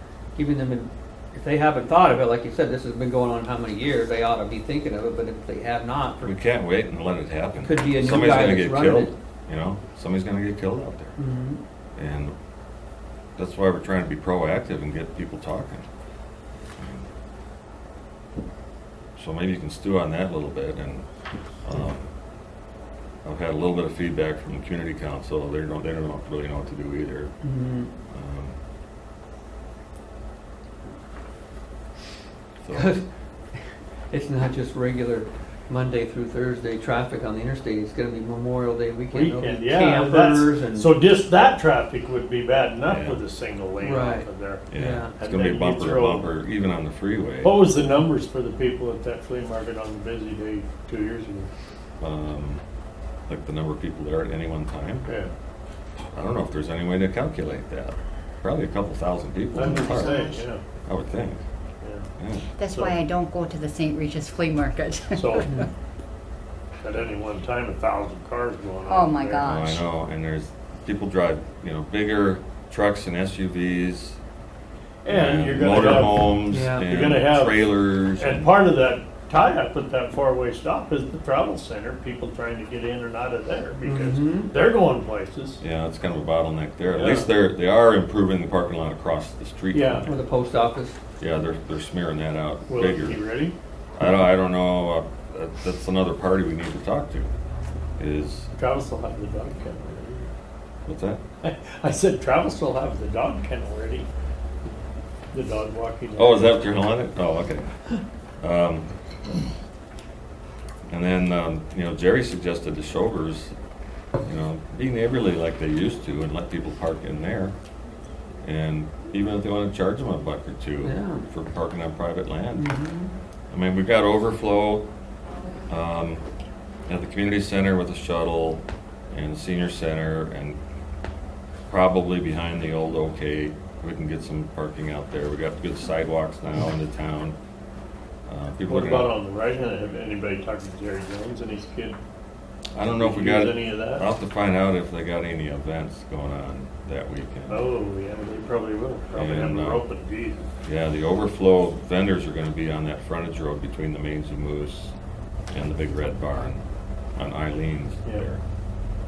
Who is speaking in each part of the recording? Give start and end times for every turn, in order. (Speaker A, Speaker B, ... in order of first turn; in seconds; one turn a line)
Speaker A: 0.4-6.3
Speaker B: 6.2-11.2
Speaker A: 7.6-9.1
Speaker A: 11.2-11.6
Speaker B: 12.0-12.3
Speaker B: 13.4-15.9
Speaker B: 16.8-17.1
Speaker B: 19.2-21.1
Speaker B: 21.6-22.1
Speaker B: 23.2-27.3
Speaker A: 27.4-27.9
Speaker B: 28.1-28.6
Speaker B: 32.6-33.0
Speaker A: 32.7-33.0
Speaker A: 34.1-41.0
Speaker C: 39.1-44.7
Speaker B: 42.9-43.2
Speaker A: 43.8-45.1
Speaker B: 44.7-47.7
Speaker C: 45.2-46.3
Speaker C: 47.4-51.5
Speaker B: 52.0-52.6
Speaker B: 53.3-55.1
Speaker C: 55.1-55.3
Speaker B: 56.1-61.4
Speaker C: 59.5-60.6
Speaker D: 59.5-60.5
Speaker C: 61.8-62.1
Speaker B: 62.2-62.5
Speaker D: 62.6-65.7
Speaker C: 62.7-63.0
Speaker C: 65.2-65.6
Speaker C: 66.8-69.5
Speaker D: 68.9-69.8
Speaker B: 69.4-74.2
Speaker C: 75.0-85.6
Speaker B: 75.1-78.6
Speaker A: 76.5-76.9
Speaker A: 83.8-84.5
Speaker B: 85.6-90.2
Speaker C: 86.9-87.3
Speaker C: 89.7-90.1
Speaker A: 90.1-91.0
Speaker B: 91.2-93.2
Speaker C: 92.7-93.5
Speaker B: 94.0-97.3
Speaker B: 98.0-98.5
Speaker C: 98.5-100.3
Speaker B: 100.9-101.2
Speaker C: 101.4-104.1
Speaker C: 105.3-106.7
Speaker B: 106.2-107.7
Speaker B: 108.4-108.9
Speaker B: 110.9-113.5
Speaker B: 114.2-117.5
Speaker B: 118.4-122.7
Speaker A: 120.8-121.3
Speaker A: 122.6-123.1
Speaker B: 123.5-124.9
Speaker B: 125.7-126.2
Speaker B: 126.9-130.6
Speaker B: 131.7-137.4
Speaker B: 138.3-139.1
Speaker C: 138.7-142.0
Speaker B: 142.7-147.7
Speaker C: 143.0-144.1
Speaker C: 147.5-150.5
Speaker B: 149.2-149.8
Speaker B: 150.6-154.9
Speaker B: 155.5-156.6
Speaker B: 157.2-158.4